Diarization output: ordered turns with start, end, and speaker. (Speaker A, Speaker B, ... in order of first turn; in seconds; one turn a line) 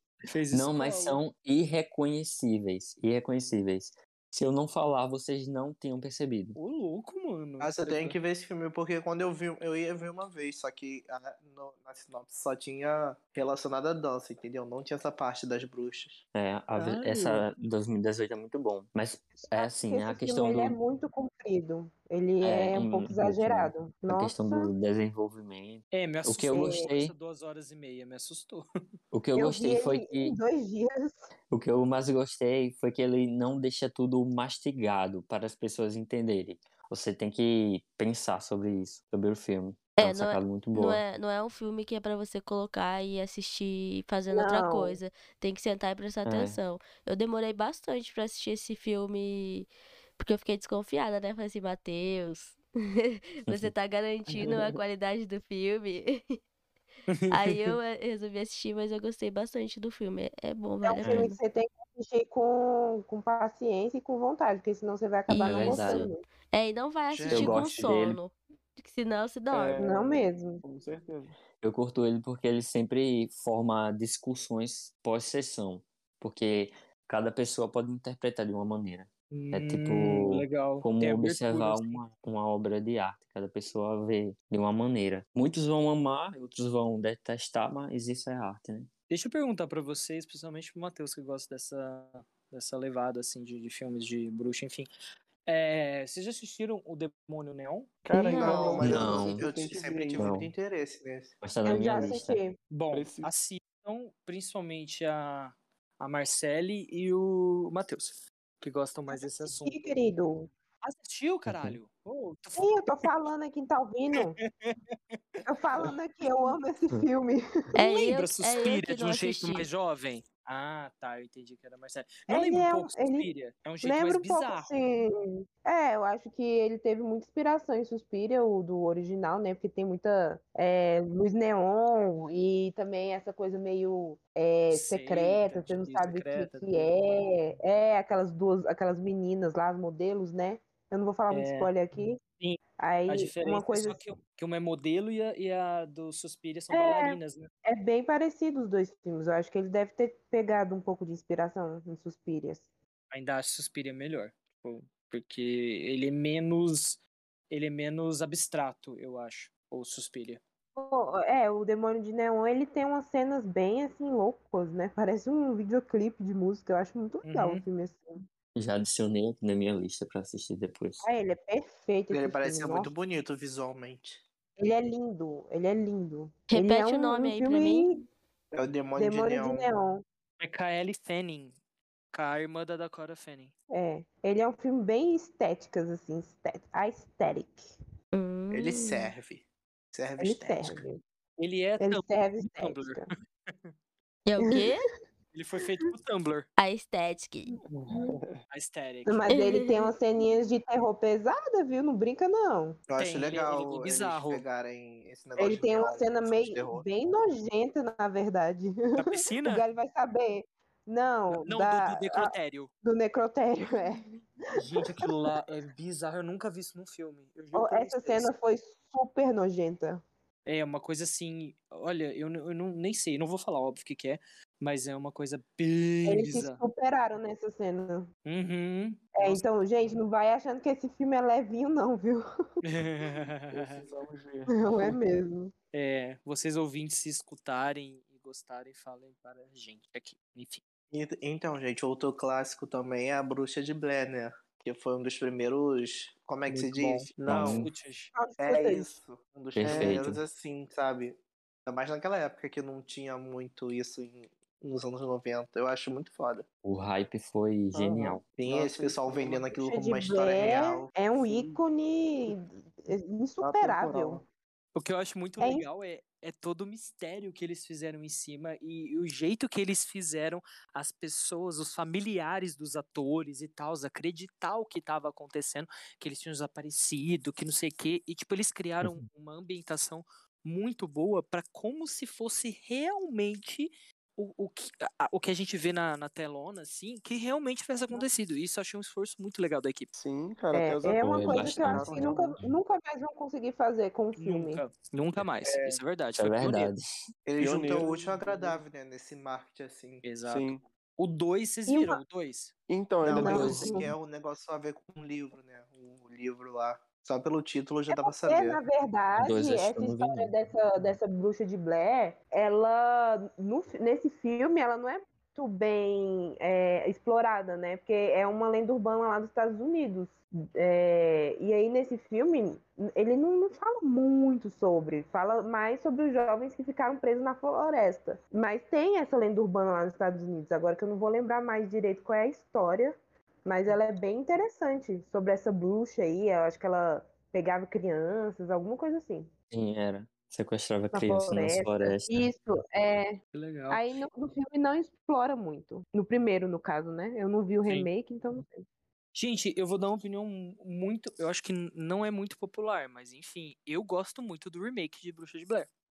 Speaker A: 0.3-1.2
Speaker B: 0.5-6.6
Speaker A: 6.6-8.2
Speaker C: 7.6-16.2
Speaker B: 16.3-20.8
Speaker A: 16.8-17.5
Speaker D: 19.4-24.7
Speaker B: 22.4-27.1
Speaker A: 25.9-28.6
Speaker D: 26.5-26.9
Speaker B: 29.1-30.4
Speaker D: 29.4-31.3
Speaker B: 31.5-41.0
Speaker E: 40.0-56.4
Speaker D: 44.3-45.0
Speaker B: 46.2-46.6
Speaker B: 53.5-53.7
Speaker F: 54.4-54.7
Speaker A: 57.1-57.8
Speaker E: 57.3-61.4
Speaker D: 60.8-66.2
Speaker B: 61.0-61.3
Speaker E: 65.3-69.8
Speaker B: 65.4-66.1
Speaker C: 67.1-67.9
Speaker B: 67.3-68.2
Speaker F: 69.5-71.4
Speaker D: 69.8-70.6
Speaker B: 71.6-88.9
Speaker A: 79.3-82.0
Speaker A: 89.1-94.9
Speaker A: 95.5-97.9
Speaker F: 98.0-100.3
Speaker E: 98.1-98.8
Speaker C: 98.3-101.4
Speaker B: 98.8-99.5
Speaker B: 100.2-100.5
Speaker B: 101.4-102.4
Speaker D: 101.7-102.6
Speaker A: 102.7-110.0
Speaker F: 102.9-103.3
Speaker D: 109.1-110.5
Speaker A: 110.8-113.1
Speaker B: 111.5-111.8
Speaker D: 112.6-114.4
Speaker A: 114.4-115.9
Speaker D: 115.5-117.4
Speaker E: 117.8-119.7
Speaker A: 117.8-124.7
Speaker D: 122.3-123.3
Speaker D: 123.8-142.2
Speaker A: 134.7-136.9
Speaker A: 141.3-141.7
Speaker A: 142.4-147.5
Speaker D: 142.8-144.0
Speaker D: 146.7-152.7
Speaker A: 153.1-160.4
Speaker D: 160.8-168.2
Speaker A: 167.2-167.6
Speaker B: 168.6-171.1
Speaker D: 171.0-172.9
Speaker C: 172.1-174.2
Speaker D: 174.6-178.0
Speaker E: 176.5-177.9
Speaker C: 178.6-179.7
Speaker D: 179.0-180.0
Speaker A: 180.4-181.6
Speaker A: 182.1-183.5
Speaker D: 183.7-187.7
Speaker E: 188.1-189.1
Speaker C: 188.5-190.8
Speaker D: 190.2-191.0
Speaker A: 191.4-193.7
Speaker D: 191.8-193.1
Speaker E: 194.3-194.9
Speaker D: 194.4-194.8
Speaker A: 195.3-196.5
Speaker E: 196.6-197.5
Speaker F: 197.7-198.4
Speaker D: 197.9-198.2
Speaker A: 198.5-199.3
Speaker D: 199.1-202.8
Speaker E: 199.3-199.9
Speaker C: 202.9-206.8
Speaker A: 203.0-204.4
Speaker D: 205.4-212.3
Speaker A: 209.0-209.6
Speaker A: 211.3-212.7
Speaker D: 212.8-214.1
Speaker A: 214.6-218.3
Speaker D: 214.9-215.4
Speaker D: 217.6-220.0
Speaker A: 220.5-226.6
Speaker D: 226.1-228.1
Speaker A: 228.3-229.4
Speaker D: 229.2-232.2
Speaker A: 232.6-233.8
Speaker F: 233.5-234.9
Speaker D: 234.5-235.5
Speaker A: 235.7-240.6
Speaker C: 240.9-247.7
Speaker F: 246.5-247.1
Speaker A: 246.6-248.1
Speaker B: 247.3-247.7
Speaker D: 248.2-249.0
Speaker C: 248.4-256.4
Speaker B: 249.6-250.2
Speaker F: 249.6-250.1
Speaker B: 256.6-258.2
Speaker F: 257.7-259.5
Speaker C: 258.4-260.9
Speaker D: 259.5-264.2
Speaker F: 261.1-261.6
Speaker F: 263.4-264.2
Speaker A: 264.8-289.9
Speaker D: 265.4-265.6
Speaker F: 289.9-292.4
Speaker D: 290.5-294.6
Speaker B: 291.0-292.6
Speaker A: 294.2-296.7
Speaker F: 295.4-295.8
Speaker B: 296.2-296.9
Speaker C: 297.3-300.0
Speaker F: 297.4-298.6
Speaker A: 300.0-302.5
Speaker F: 300.2-300.6
Speaker D: 301.7-302.0
Speaker F: 302.7-303.7
Speaker C: 303.0-308.6
Speaker D: 303.1-303.9
Speaker B: 303.1-303.8
Speaker D: 307.9-339.3
Speaker B: 309.2-310.3
Speaker B: 339.5-342.3
Speaker D: 340.9-343.2
Speaker A: 343.3-343.9
Speaker D: 343.7-348.6
Speaker A: 349.1-355.7